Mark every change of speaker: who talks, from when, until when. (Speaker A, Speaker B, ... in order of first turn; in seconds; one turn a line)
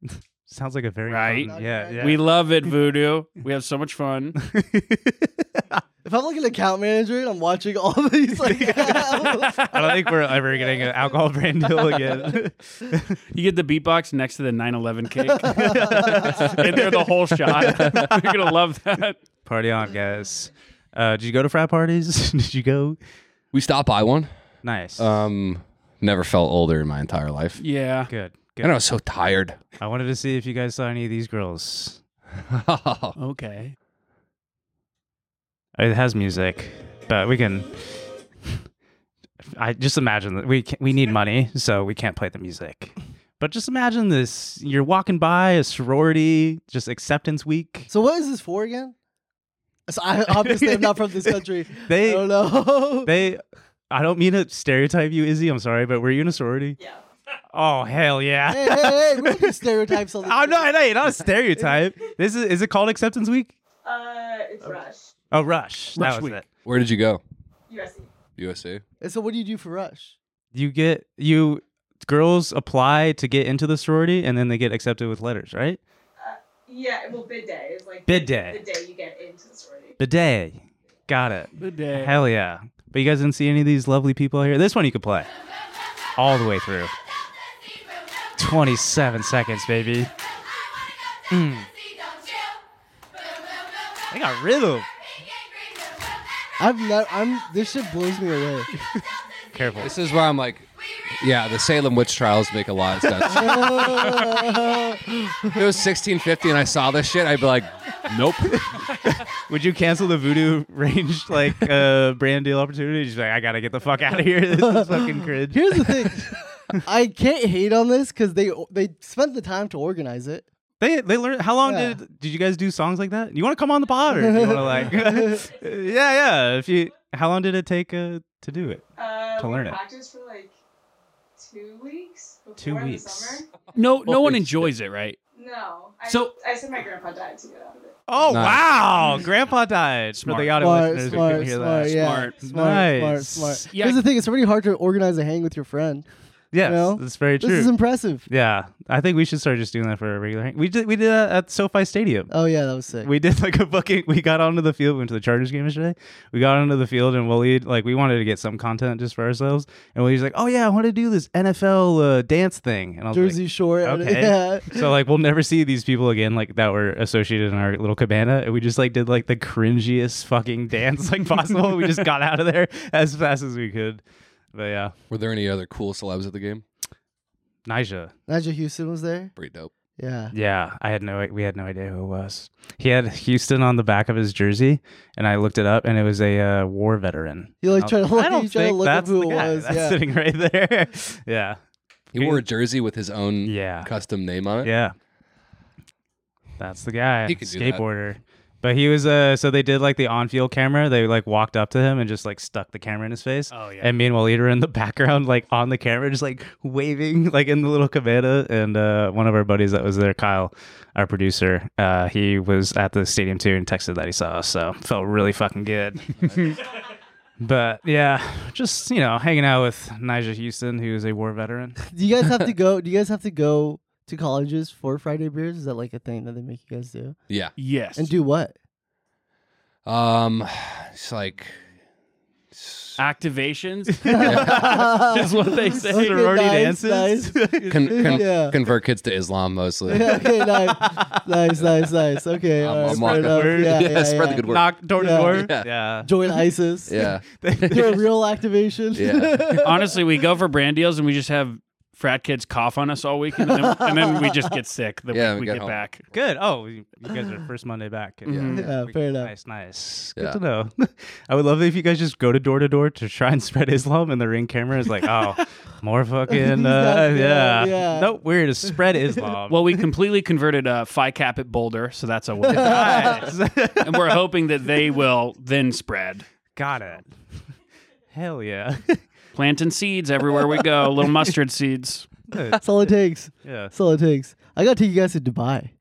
Speaker A: 0.1-2.3
Speaker B: 1.1-4.4
Speaker C: 1.5-2.3
Speaker A: 4.4-5.8
Speaker C: 6.0-9.7
Speaker A: 8.4-13.2
Speaker B: 13.3-19.2
Speaker C: 15.4-16.4
Speaker A: 15.5-16.6
Speaker D: 16.4-16.9
Speaker D: 17.5-18.1
Speaker A: 17.6-18.1
Speaker A: 19.4-23.0
Speaker D: 23.5-24.3
Speaker A: 24.6-25.1
Speaker D: 25.0-27.6
Speaker B: 27.6-28.1
Speaker A: 28.1-28.8
Speaker D: 28.6-29.6
Speaker A: 29.8-32.0
Speaker D: 32.5-33.2
Speaker B: 33.2-33.8
Speaker A: 35.8-37.7
Speaker A: 39.5-47.9
Speaker C: 47.9-49.0
Speaker C: 49.9-53.1
Speaker A: 50.3-52.3
Speaker A: 53.0-56.8
Speaker E: 56.8-57.0
Speaker A: 57.5-59.5
Speaker C: 58.5-60.8
Speaker A: 60.2-63.5
Speaker E: 63.9-65.1
Speaker A: 65.3-66.5
Speaker B: 66.0-66.4
Speaker D: 66.7-67.2
Speaker E: 67.7-68.1
Speaker D: 68.4-68.8
Speaker C: 69.0-70.2
Speaker A: 70.5-75.8
Speaker E: 76.2-80.0
Speaker A: 78.1-78.6
Speaker A: 80.0-85.3
Speaker B: 81.6-82.2
Speaker A: 86.2-86.9
Speaker A: 88.4-90.1
Speaker A: 91.3-91.7
Speaker A: 94.1-94.9
Speaker C: 96.6-98.7
Speaker A: 99.5-99.9
Speaker D: 99.8-104.2
Speaker C: 103.3-105.6
Speaker D: 105.5-108.8
Speaker A: 109.0-116.2
Speaker C: 114.5-120.5
Speaker A: 120.8-129.8
Speaker C: 121.6-122.0
Speaker C: 124.1-125.5
Speaker E: 129.0-130.5
Speaker E: 131.4-133.5
Speaker A: 132.6-133.4
Speaker B: 133.8-135.2
Speaker D: 134.1-134.7
Speaker E: 135.3-138.0
Speaker B: 136.1-136.3
Speaker A: 138.1-143.6
Speaker D: 138.3-138.8
Speaker B: 140.2-142.4
Speaker C: 140.6-146.1
Speaker B: 143.7-144.0
Speaker A: 146.5-147.7
Speaker C: 146.6-148.3
Speaker A: 148.3-152.3
Speaker C: 152.3-153.1
Speaker A: 153.0-174.0
Speaker C: 163.1-164.9
Speaker A: 174.5-174.9
Speaker D: 175.1-176.6
Speaker A: 177.7-178.1
Speaker C: 178.3-179.3
Speaker D: 179.4-179.7
Speaker C: 180.0-180.3
Speaker A: 180.3-191.6
Speaker C: 187.6-190.0
Speaker D: 192.1-194.7
Speaker A: 192.2-192.4
Speaker A: 193.4-193.9
Speaker A: 194.6-194.9
Speaker A: 196.6-216.2
Speaker D: 197.3-197.8
Speaker B: 203.5-203.9
Speaker A: 217.4-221.8
Speaker C: 221.9-227.2
Speaker D: 227.3-227.5
Speaker B: 227.6-228.1
Speaker C: 228.0-228.5
Speaker D: 229.8-231.6
Speaker D: 232.5-233.0
Speaker B: 233.0-236.6
Speaker A: 234.0-234.5
Speaker C: 234.1-238.6
Speaker D: 234.2-234.8
Speaker A: 235.9-238.2
Speaker D: 237.7-240.2
Speaker C: 239.9-247.1
Speaker A: 240.4-241.2
Speaker D: 242.6-245.7
Speaker A: 242.8-246.1
Speaker D: 246.9-247.9
Speaker A: 247.4-248.1
Speaker C: 247.7-249.9
Speaker D: 248.9-249.7
Speaker B: 249.6-256.0
Speaker C: 253.4-254.4
Speaker D: 255.1-255.8
Speaker A: 256.1-269.8
Speaker B: 258.3-258.6
Speaker D: 258.3-258.5
Speaker C: 258.5-259.3
Speaker C: 266.3-268.1
Speaker B: 269.5-273.3
Speaker C: 272.5-273.3
Speaker A: 272.5-274.1
Speaker B: 273.8-276.3
Speaker A: 276.6-277.1
Speaker A: 278.1-279.0
Speaker B: 279.4-282.1
Speaker A: 282.3-282.6
Speaker C: 282.5-285.7
Speaker A: 283.4-283.7